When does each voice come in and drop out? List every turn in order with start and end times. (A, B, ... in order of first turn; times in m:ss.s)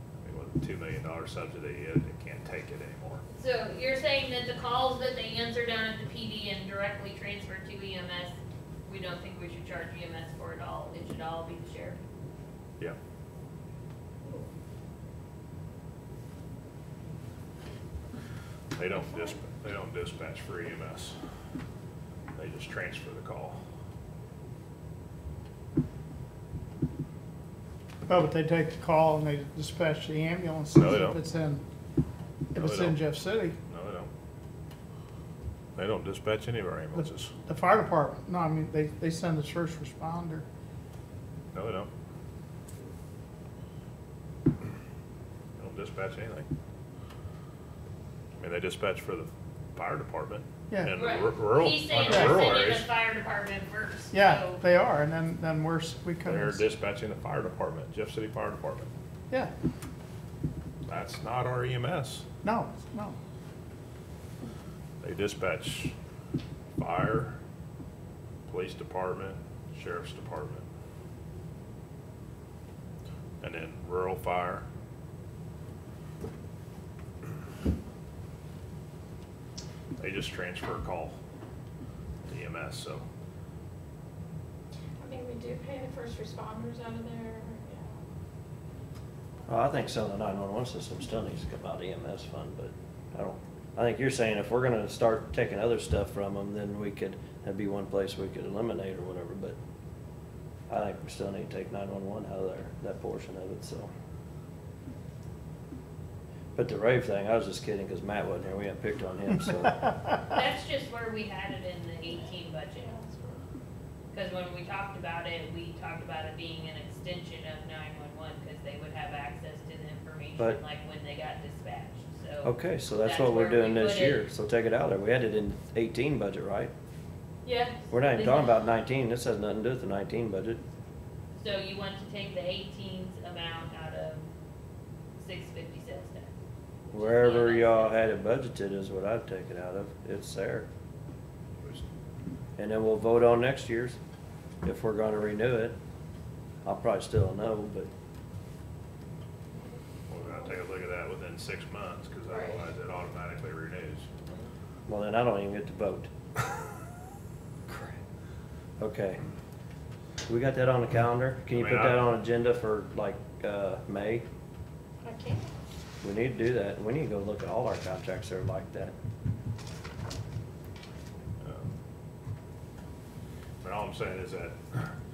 0:00.2-0:03.2 A
0:03.4-0:12.0 B
0:18.7-0:21.2 A
0:22.4-0:23.6 A
0:28.1-0:31.6 C
0:30.7-0:31.2 A
0:32.5-0:33.6 C
0:32.6-0:33.0 A
0:33.7-0:34.1 A
0:35.8-0:37.3 A
0:37.4-0:40.4 C
0:41.5-0:41.9 A
0:45.6-0:46.5 A
0:48.4-0:52.9 A
0:50.7-0:51.0 C
0:50.9-0:54.6 B
0:52.0-0:52.5 C
0:54.1-0:56.6 C
0:56.2-0:58.9 A
1:00.8-1:02.2 A
1:02.4-1:03.2 C
1:05.0-1:05.9 A
1:06.8-1:07.4 A
1:08.5-1:10.6 A
1:13.4-1:14.6 A
1:20.0-1:21.2 A
1:22.2-1:23.0 A
1:25.0-1:28.0 D
1:29.4-1:39.6 E
1:40.7-1:43.9 E
1:46.6-1:49.8 E
1:50.3-1:52.9 B
1:52.7-1:53.4 D
1:54.1-2:04.2 B
2:02.4-2:06.7 E
2:07.4-2:08.5 B
2:07.9-2:10.6 E
2:11.3-2:14.2 B
2:15.2-2:16.3 B
2:16.9-2:18.0 B
2:16.9-2:20.7 E
2:21.6-2:21.8 A
2:22.6-2:24.0 E
2:24.6-2:25.8 E
2:26.6-2:27.9 E
2:29.5-2:30.5 D
2:30.1-2:34.1 A
2:32.3-2:32.6 D
2:34.9-2:36.1 E
2:38.8-2:39.2 E
2:40.3-2:44.2 E
2:41.5-2:42.1 A
2:45.0-2:45.5 D
2:46.0-2:48.9 E
2:51.4-2:51.8 A
2:53.6-2:54.8 A